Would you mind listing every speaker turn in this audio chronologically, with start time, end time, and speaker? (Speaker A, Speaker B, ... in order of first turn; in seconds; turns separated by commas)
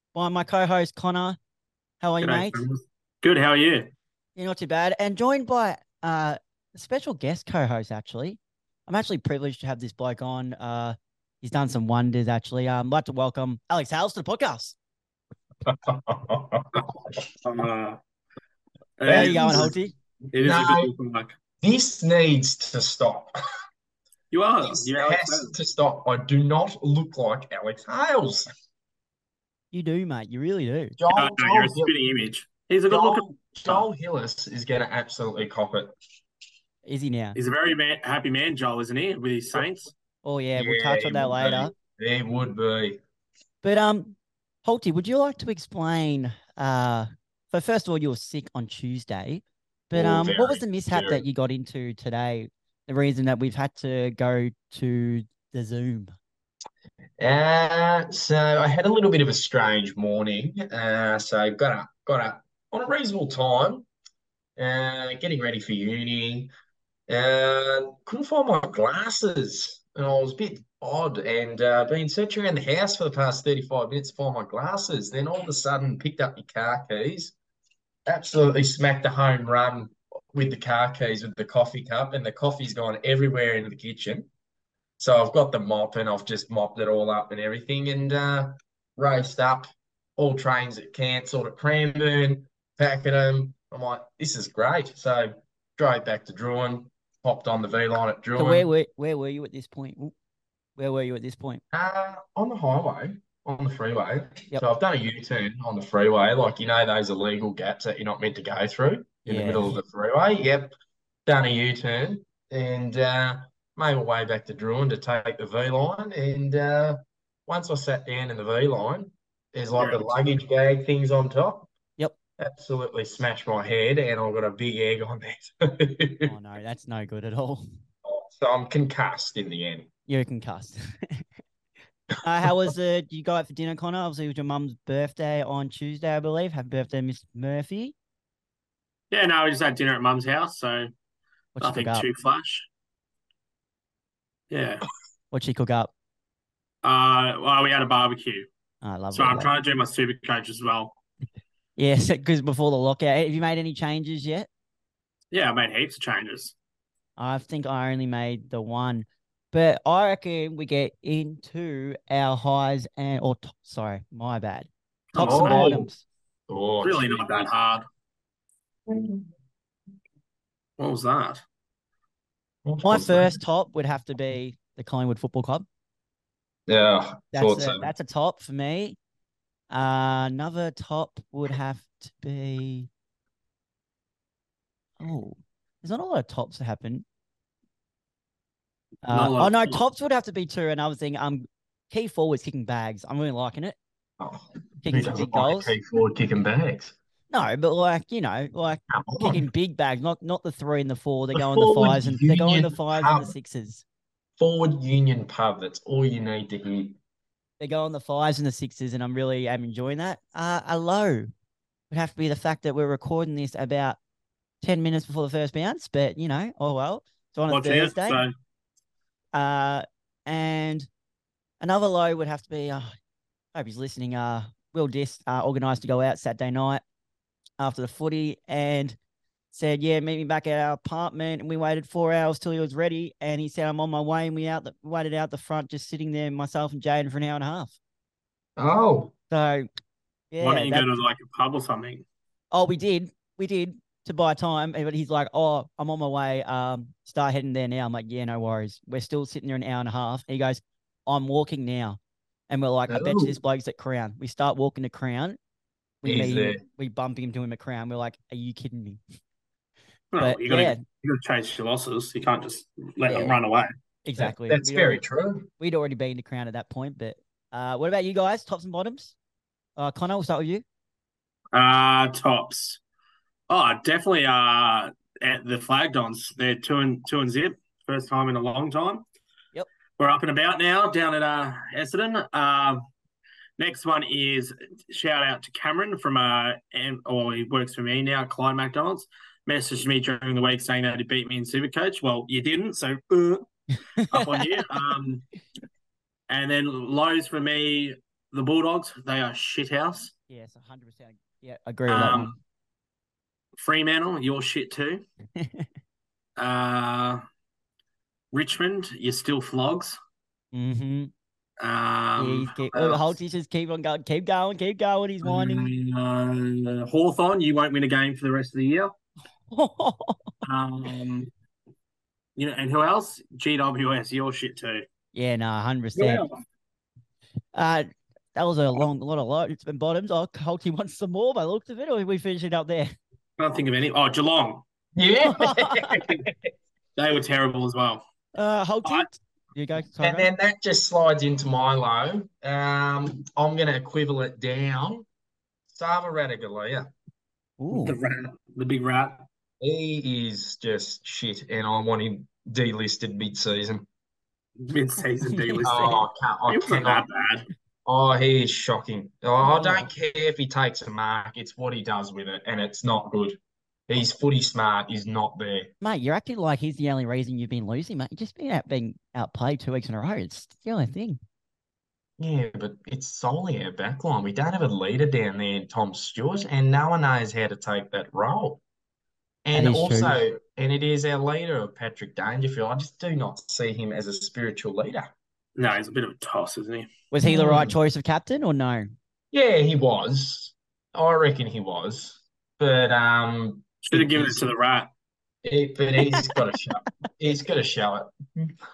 Speaker A: 0.1-1.4, Speaker A: 2.0-2.6, Speaker B: 2.2-3.9, Speaker A: 4.3-14.7, Speaker C: 15.6-17.2, Speaker B: 17.4-18.0, Speaker B: 19.0-19.7, Speaker C: 19.0-19.7, Speaker A: 19.1-19.9, Speaker B: 20.3-21.3, Speaker C: 20.4-20.9, Speaker C: 21.6-23.4, Speaker B: 24.3-25.5, Speaker C: 24.6-28.4, Speaker A: 29.7-30.9, Speaker C: 31.0-31.9, Speaker B: 31.1-33.8, Speaker C: 32.9-35.9, Speaker A: 36.9-37.4, Speaker B: 37.4-39.9, Speaker A: 40.2-41.7, Speaker C: 40.5-43.0, Speaker A: 43.6-56.1, Speaker C: 49.9-51.2, Speaker C: 57.2-63.9, Speaker C: 64.6-66.5, Speaker C: 67.1-77.3, Speaker C: 78.1-84.3, Speaker C: 85.0-98.7, Speaker A: 98.3-100.1, Speaker A: 100.8-101.6, Speaker C: 101.7-110.7, Speaker A: 109.2-109.7, Speaker C: 111.2-121.7, Speaker B: 119.8-120.1, Speaker C: 122.4-126.3, Speaker A: 126.2-127.7, Speaker C: 128.0-129.9, Speaker A: 130.1-131.2, Speaker A: 132.2-137.9, Speaker B: 139.1-140.9, Speaker A: 141.6-142.1, Speaker B: 141.6-142.7, Speaker B: 144.5-144.9, Speaker A: 145.3-145.9, Speaker B: 146.8-148.5, Speaker A: 148.8-149.5, Speaker B: 149.1-151.0, Speaker A: 151.8-154.5, Speaker B: 155.3-156.5, Speaker A: 157.2-166.0, Speaker B: 165.1-165.8, Speaker C: 165.2-165.8, Speaker C: 166.5-167.4, Speaker B: 166.8-167.8, Speaker C: 168.9-169.3, Speaker B: 170.8-171.4, Speaker C: 172.6-173.4, Speaker A: 172.8-175.7, Speaker C: 176.7-177.9, Speaker A: 177.3-179.0, Speaker A: 179.7-182.9, Speaker A: 185.0-187.0, Speaker A: 189.0-193.8, Speaker B: 189.1-189.8, Speaker C: 194.2-196.9, Speaker A: 194.8-195.7, Speaker A: 197.3-203.8, Speaker C: 198.9-199.4, Speaker C: 201.3-203.3, Speaker C: 204.4-207.0, Speaker A: 207.6-211.3, Speaker A: 211.9-214.0, Speaker A: 214.6-218.2, Speaker B: 217.5-218.3, Speaker A: 219.3-220.9, Speaker A: 221.6-222.9, Speaker A: 223.5-226.8, Speaker A: 227.6-228.9, Speaker A: 229.5-237.7, Speaker C: 238.6-239.1, Speaker A: 239.3-239.7, Speaker A: 240.3-240.9, Speaker B: 240.4-242.0, Speaker A: 242.5-255.4, Speaker C: 252.9-253.4, Speaker A: 256.0-259.0, Speaker C: 256.0-256.6, Speaker B: 260.1-263.7, Speaker A: 260.2-260.8, Speaker A: 263.0-263.4, Speaker A: 264.0-265.0, Speaker C: 264.1-265.5, Speaker A: 265.6-269.1, Speaker A: 269.8-270.6, Speaker B: 271.5-272.8, Speaker B: 273.5-279.0, Speaker B: 280.0-282.8, Speaker B: 283.6-293.4, Speaker A: 294.0-294.6, Speaker B: 294.1-295.2, Speaker B: 296.3-300.1, Speaker A: 300.3-302.3, Speaker B: 301.9-302.3, Speaker B: 303.6-305.0, Speaker A: 305.4-305.7, Speaker B: 306.4-307.2, Speaker B: 308.3-310.0, Speaker A: 310.5-311.1, Speaker B: 311.6-313.2, Speaker A: 312.2-315.7, Speaker B: 315.2-318.9, Speaker A: 319.5-320.3, Speaker B: 320.4-321.3, Speaker B: 322.4-324.9, Speaker A: 325.1-326.2, Speaker B: 325.9-326.3, Speaker A: 327.5-332.9, Speaker B: 333.4-334.6, Speaker C: 334.9-336.5, Speaker A: 335.2-336.0, Speaker B: 336.9-338.0, Speaker A: 338.4-340.3, Speaker C: 340.0-345.1, Speaker C: 345.7-346.9, Speaker A: 347.6-348.0, Speaker B: 347.7-349.2, Speaker C: 349.6-353.9, Speaker B: 354.6-357.5, Speaker A: 355.3-356.0, Speaker C: 355.6-357.1, Speaker C: 357.9-365.7, Speaker A: 359.4-359.9, Speaker A: 365.8-371.2, Speaker C: 372.2-378.6, Speaker C: 379.4-385.1, Speaker A: 379.5-380.2, Speaker B: 385.6-386.9, Speaker A: 387.1-388.9, Speaker C: 387.2-387.7, Speaker C: 389.3-394.5, Speaker B: 393.8-394.9, Speaker C: 395.4-398.5